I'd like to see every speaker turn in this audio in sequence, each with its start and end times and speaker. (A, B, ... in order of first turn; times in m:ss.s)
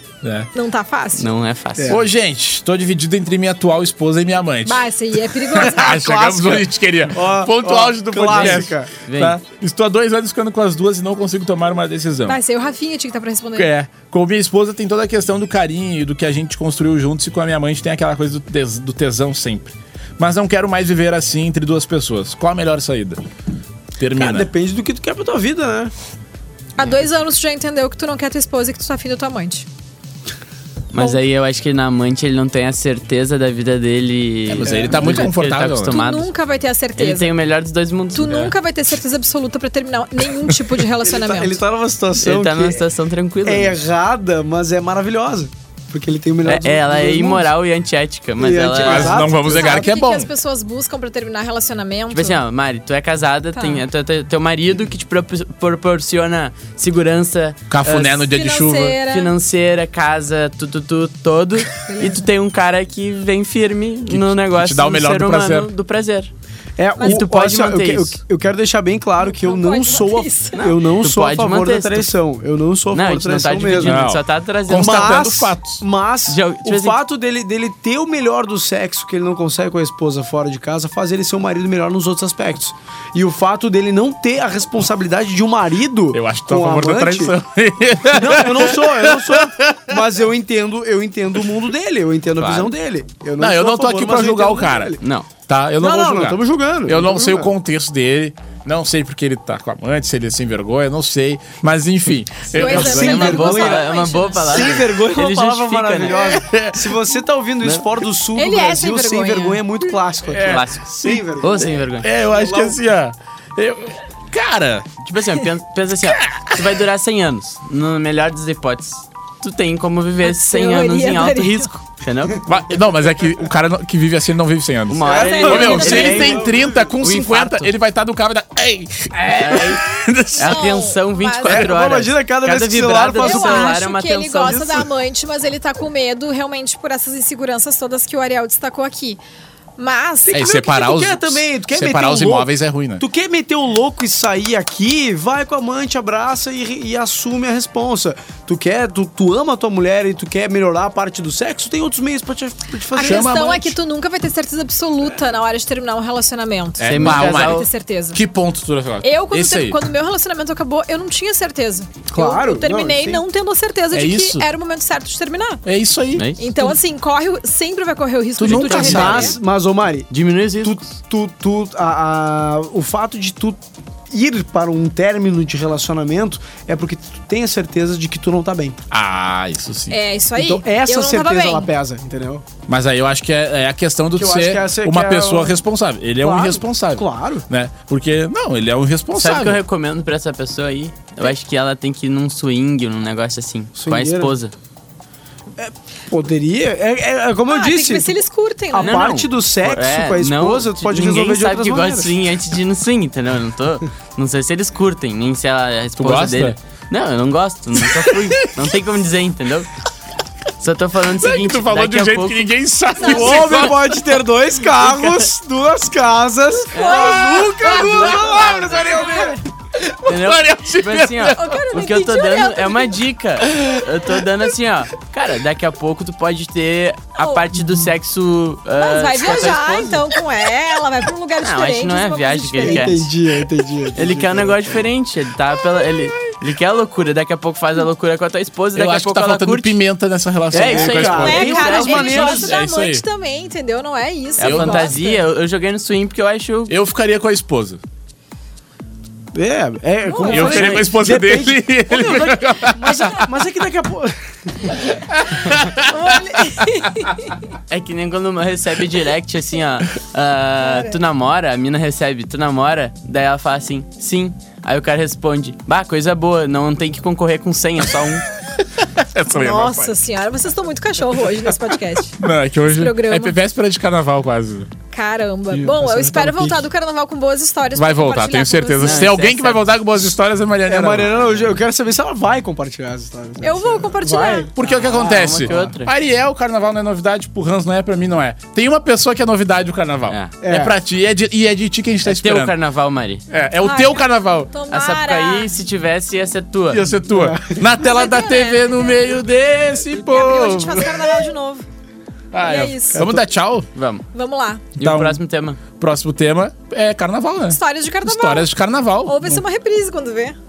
0:00.2-0:00.5 A
0:00.5-0:01.3 B
0:01.2-0:02.0 C
0:01.8-0:02.0 D
0:01.9-0:04.9 A
0:04.6-0:06.2 B
0:05.4-0:12.4 A
0:05.6-0:08.9 D
0:08.3-0:09.4 C
0:12.2-0:13.7 B
0:13.6-0:23.2 A
0:24.0-0:24.5 A
0:24.1-0:25.9 D
0:26.8-0:29.7 B
0:30.9-0:36.3 C
0:34.5-0:36.0 A
0:34.6-0:35.3 D
0:35.9-0:37.3 B
0:37.0-0:38.5 C
0:38.1-0:41.6 B
0:41.0-0:42.8 D
0:42.2-0:43.8 C
0:43.4-0:47.5 D
0:46.4-0:49.2 C
0:48.4-0:49.9 D
0:48.8-0:50.3 A
0:49.2-0:52.4 B
0:52.1-0:58.2 C
0:53.5-0:53.8 B
0:57.7-0:59.0 A
0:58.2-0:59.3 B
0:59.0-1:06.3 C
1:01.8-1:02.3 B
1:04.1-1:05.7 A
1:06.8-1:14.0 D
1:07.0-1:07.2 B
1:07.0-1:08.2 C
1:09.2-1:10.6 B
1:10.5-1:12.1 C
1:12.9-1:15.4 C
1:13.8-1:15.8 A
1:14.7-1:27.3 D
1:16.3-1:17.0 C
1:26.1-1:29.9 A
1:28.0-1:35.0 D
1:32.4-1:32.7 C
1:33.4-1:34.9 A
1:35.0-1:35.3 C
1:35.5-1:43.4 A
1:35.8-1:37.5 D
1:42.5-1:46.2 C
1:42.5-1:44.8 B
1:42.6-1:43.9 D
1:44.4-1:52.8 D
1:46.1-1:46.9 A
1:48.3-1:49.8 B
1:50.3-1:51.2 A
1:50.3-1:52.1 C
1:52.0-1:55.0 A
1:55.0-2:02.5 C
1:56.1-1:56.6 A
2:00.2-2:01.7 B
2:02.4-2:10.5 A
2:04.9-2:07.7 C
2:05.0-2:06.9 D
2:05.1-2:06.4 B
2:09.4-2:14.9 C
2:10.4-2:11.7 B
2:11.4-2:13.8 D
2:13.2-2:19.2 B
2:19.8-2:20.7 B
2:20.2-2:33.5 D
2:20.3-2:23.0 A
2:32.9-2:38.2 B
2:33.0-2:33.8 A
2:36.8-2:39.8 A
2:36.8-2:37.7 C
2:39.0-2:45.6 B
2:42.1-2:43.2 D
2:43.9-2:44.4 A
2:45.6-2:46.3 A
2:46.2-2:46.7 C
2:46.4-2:49.3 B
2:48.4-2:49.4 A
2:48.5-2:50.1 D
2:48.8-2:49.4 C
2:50.1-2:50.8 C
2:50.6-2:58.8 D
2:58.9-3:00.0 A
2:59.9-3:01.7 B
3:00.4-3:02.4 D
3:02.7-3:09.6 A
3:04.2-3:05.6 D
3:06.2-3:07.4 D
3:09.2-3:14.5 C
3:13.8-3:14.3 D
3:15.6-3:18.1 D
3:17.5-3:19.1 B
3:18.7-3:22.1 D
3:18.8-3:29.7 C
3:26.0-3:26.6 A
3:27.8-3:28.6 A
3:30.6-3:32.5 C
3:31.2-3:34.0 A
3:33.0-3:33.3 B
3:33.0-3:39.4 D
3:33.0-3:33.6 C
3:36.7-3:38.1 B
3:36.7-3:39.0 C
3:37.6-3:38.7 A
3:38.7-3:39.4 B
3:39.8-3:41.5 A
3:40.0-3:50.0 C
3:41.3-3:43.0 B
3:47.2-3:47.4 B
3:48.8-3:53.0 B
3:51.4-3:53.1 C
3:52.6-3:54.8 D
3:53.9-3:59.8 C
3:58.8-4:03.0 A
4:00.5-4:02.5 D
4:00.5-4:02.6 C
4:01.2-4:05.2 B
4:04.4-4:06.7 C
4:04.4-4:04.9 A
4:06.7-4:07.8 A
4:09.3-4:14.8 D
4:10.0-4:10.9 B
4:10.3-4:13.2 A
4:14.9-4:16.4 A
4:15.8-4:17.4 B
4:17.7-4:28.2 C
4:20.6-4:20.9 B
4:28.7-4:29.9 A
4:29.3-4:33.4 B
4:32.2-4:34.7 A
4:34.9-4:39.1 B
4:35.5-4:36.7 D
4:37.7-4:41.3 A
4:38.8-4:39.7 C
4:40.6-4:45.7 D
4:43.4-4:44.5 B
4:44.5-4:52.5 A
4:44.6-4:45.9 C
4:50.1-4:50.3 C
4:50.4-4:50.8 D
4:52.0-4:53.2 C
4:53.3-4:54.5 A
4:53.6-4:55.5 B
4:54.7-4:56.9 C
4:56.7-5:01.1 A
4:57.1-4:57.6 D
4:57.8-4:59.2 B
4:59.9-5:01.6 B
5:02.3-5:03.7 A
5:02.4-5:03.1 B
5:02.9-5:03.3 D
5:03.7-5:04.0 C
5:04.1-5:04.6 B
5:04.8-5:05.6 C
5:04.8-5:09.4 A
5:07.5-5:08.5 B
5:09.0-5:10.4 B